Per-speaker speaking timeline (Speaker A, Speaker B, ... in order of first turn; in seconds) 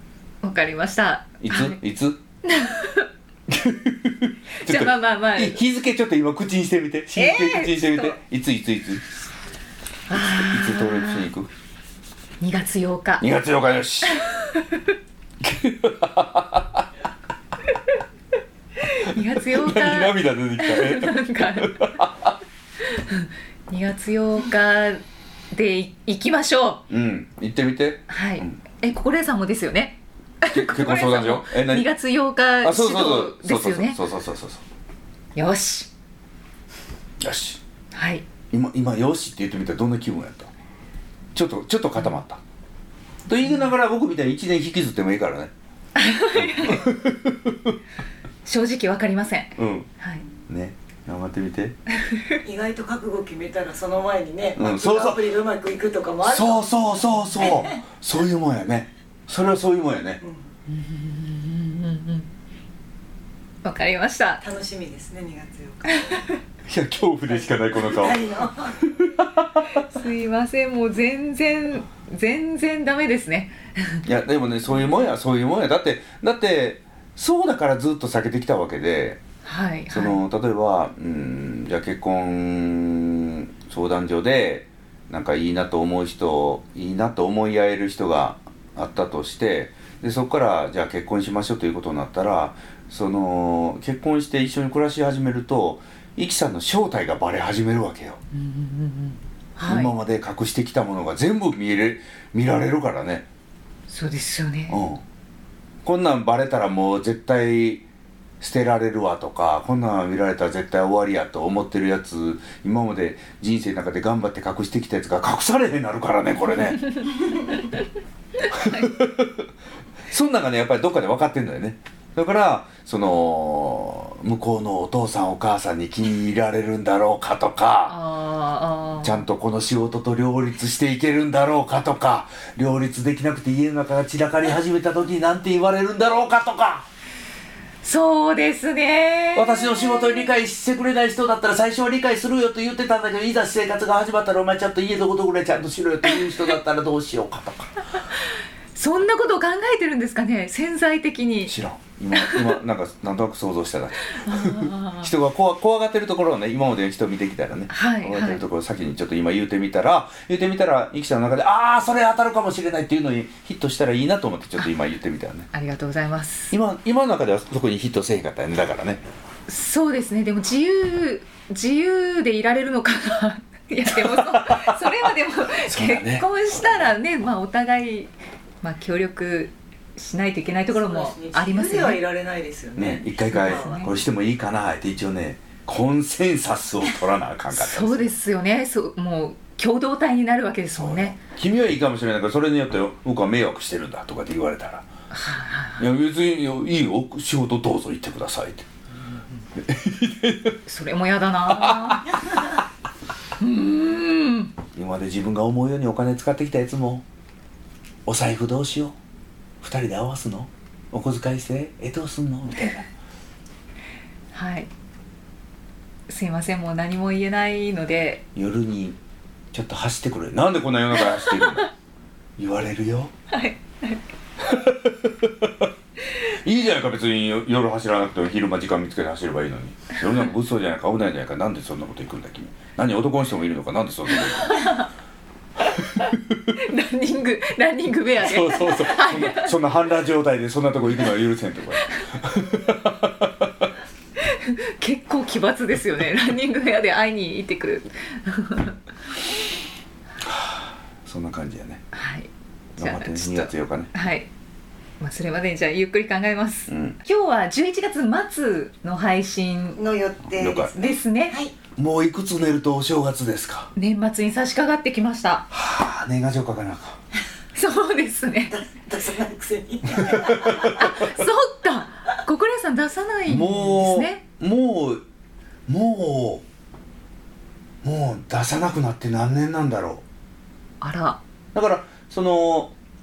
Speaker A: 0.4-1.8, 2.4-3.1, 4.6-5.6, 7.2-8.2, 10.1-11.3, 12.4-13.3, 14.2-14.8, 18.8-21.8, 22.8-26.8, 28.1-34.0, 35.3-35.9, 37.9-38.2, 46.0-47.0, 48.4-50.2, 52.0-52.4, 60.7-62.3, 63.6-64.4, 65.9-66.2, 69.7-74.0, 79.4-80.2, 98.3-100.0, 103.9-104.8, 118.4-119.0, 127.9-129.2, 137.8-140.3, 148.7-151.5, 152.1-152.6, 154.1-155.1, 157.7-158.4, 165.5-166.5, 169.5-178.1, 178.6-182.0, 183.3-183.9, 187.5-191.2, 195.1-195.9, 200.7-202.2, 203.4-204.5, 214.3-214.7, 216.1-218.2, 221.1-221.7, 223.3-224.0, 234.2-234.9, 235.7-239.6, 244.2-248.8, 251.9-254.3, 255.0-259.8, 260.7-261.4, 263.8-265.4, 267.5-268.6, 270.3-274.2, 280.8-281.2
Speaker B: 1.4-2.2, 3.5-9.0, 10.2-11.5, 13.2-14.2, 15.4-16.8, 19.2-22.3, 26.9-28.6, 30.5-31.9, 32.6-34.6, 37.2-37.6, 38.5-40.5, 41.3-42.4, 43.3-45.5, 46.3-47.7, 49.5-49.9, 50.5-51.8, 54.5-55.2, 56.2-60.2, 66.7-69.8, 74.0-79.2, 79.9-98.2, 99.7-103.3, 104.7-105.0, 105.8-107.8, 108.4-117.0, 118.5-119.5, 120.1-128.0, 129.0-136.9, 139.3-147.8, 151.5-165.5, 166.5-169.0, 173.9-175.1, 175.6-176.9, 182.8-188.1, 190.8-194.9, 195.8-198.7, 199.6-200.6, 201.5-202.2, 204.7-207.0, 208.1-208.9, 209.6-212.9, 218.3-219.0, 219.5-221.7, 222.4-223.1, 224.4-225.7, 226.2-234.8, 238.2-243.7, 250.2-251.8, 252.8-253.9, 256.7-257.0, 260.3-260.7, 261.8-263.7, 265.5-267.0, 270.1-270.7, 273.3-275.0, 275.7-276.4, 277.8-280.0, 281.5-282.7
Speaker C: 52.4-57.8, 64.4-66.2, 67.8-68.8, 180.7-183.9, 259.8-261.5, 268.5-271.0